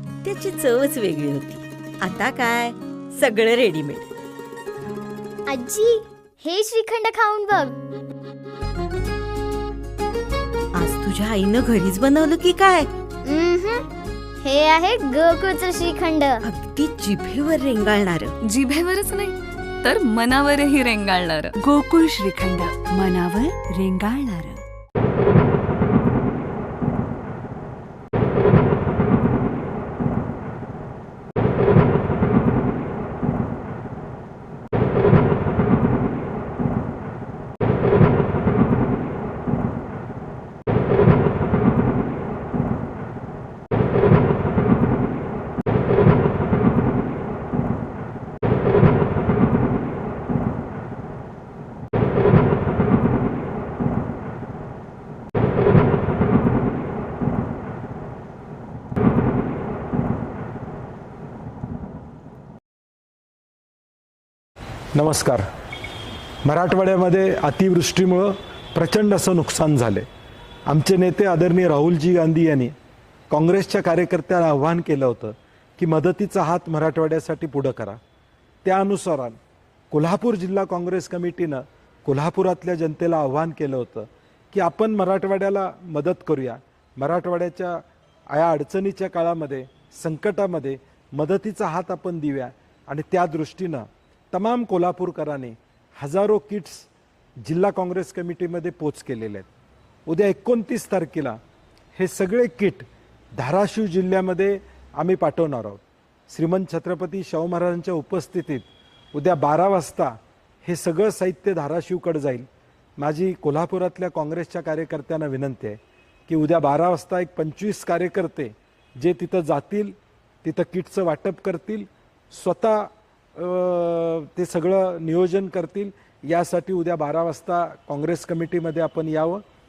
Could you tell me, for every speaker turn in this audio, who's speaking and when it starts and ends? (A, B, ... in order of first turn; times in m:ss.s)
0:00.2-0:04.1 A
0:05.5-0:07.8 B
0:10.8-0:12.9 A
0:13.2-0:13.8 B
0:14.4-0:16.4 B
0:16.4-0:18.4 A
0:18.5-0:21.6 C
0:21.6-0:24.6 D
1:04.9-1:05.4 E
1:06.4-1:10.1 E
1:10.7-1:12.7 E
1:13.3-1:18.0 E
1:18.6-1:19.4 E
1:19.9-1:36.9 E
1:37.4-1:39.5 E
1:40.1-1:41.4 E
1:42.0-1:42.9 E
1:43.4-1:52.5 E
1:53.0-2:09.4 E